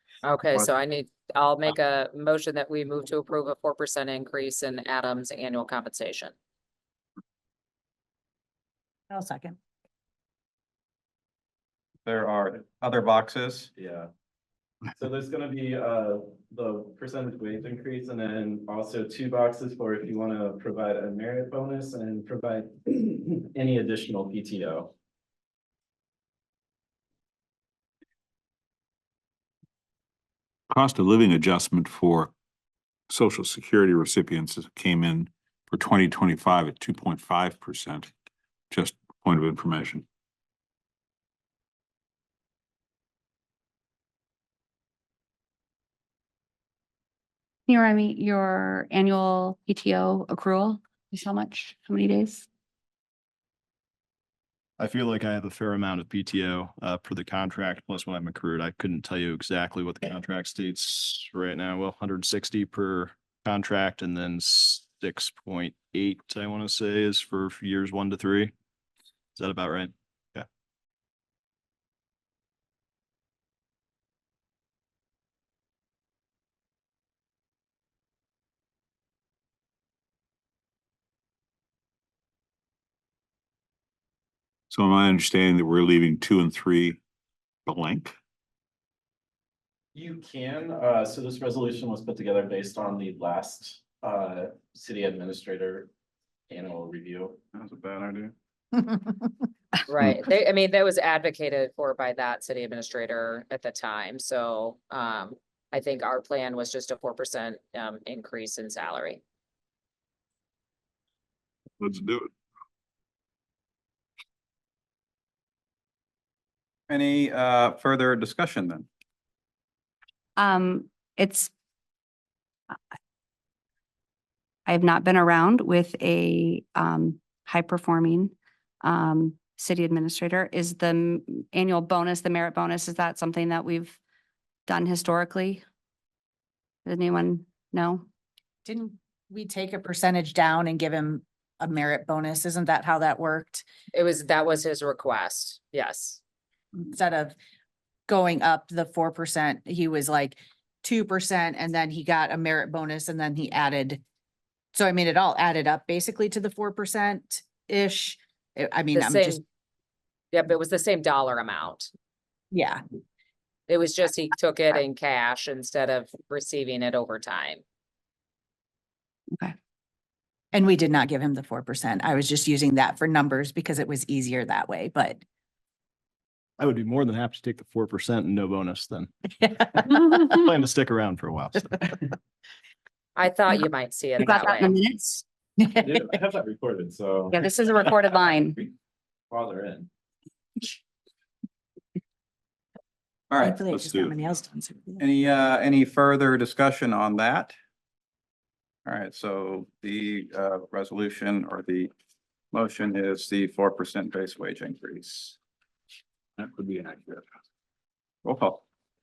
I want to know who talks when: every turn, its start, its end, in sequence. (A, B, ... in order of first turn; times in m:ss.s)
0:00.2-0:06.4 A
0:09.1-0:09.6 B
0:12.1-0:13.7 C
0:13.8-0:14.1 D
0:15.0-0:24.9 D
0:30.7-0:32.3 E
0:33.1-0:38.1 E
0:38.7-0:40.0 E
0:47.7-0:52.5 F
0:54.8-1:08.5 G
1:09.4-1:10.5 G
1:24.7-1:27.0 E
1:27.7-1:28.2 E
1:30.0-1:35.9 D
1:36.5-1:37.4 D
1:37.5-1:38.3 C
1:38.7-1:39.3 B
1:39.9-1:49.2 A
1:51.8-1:52.2 C
1:56.9-1:58.9 C
2:00.4-2:01.5 F
2:04.7-2:14.0 F
2:14.7-2:15.6 F
2:16.8-2:18.1 F
2:18.6-2:23.6 B
2:23.9-2:26.2 A
2:26.8-2:27.4 B
2:28.1-2:34.0 B
2:34.8-2:39.4 B
2:38.9-2:39.4 A
2:40.3-2:41.9 A
2:42.5-2:42.8 B
2:43.7-2:47.6 A
2:50.5-2:55.2 B
2:56.6-3:02.0 G
3:03.2-3:04.8 A
3:04.2-3:05.2 F
3:05.6-3:05.9 B
3:05.8-3:08.7 D
3:07.3-3:08.6 F
3:09.3-3:09.9 D
3:13.3-3:14.2 C
3:13.4-3:15.0 B
3:15.0-3:17.5 C
3:18.9-3:21.9 C
3:22.5-3:25.4 C
3:26.4-3:27.2 E
3:28.2-3:28.6 C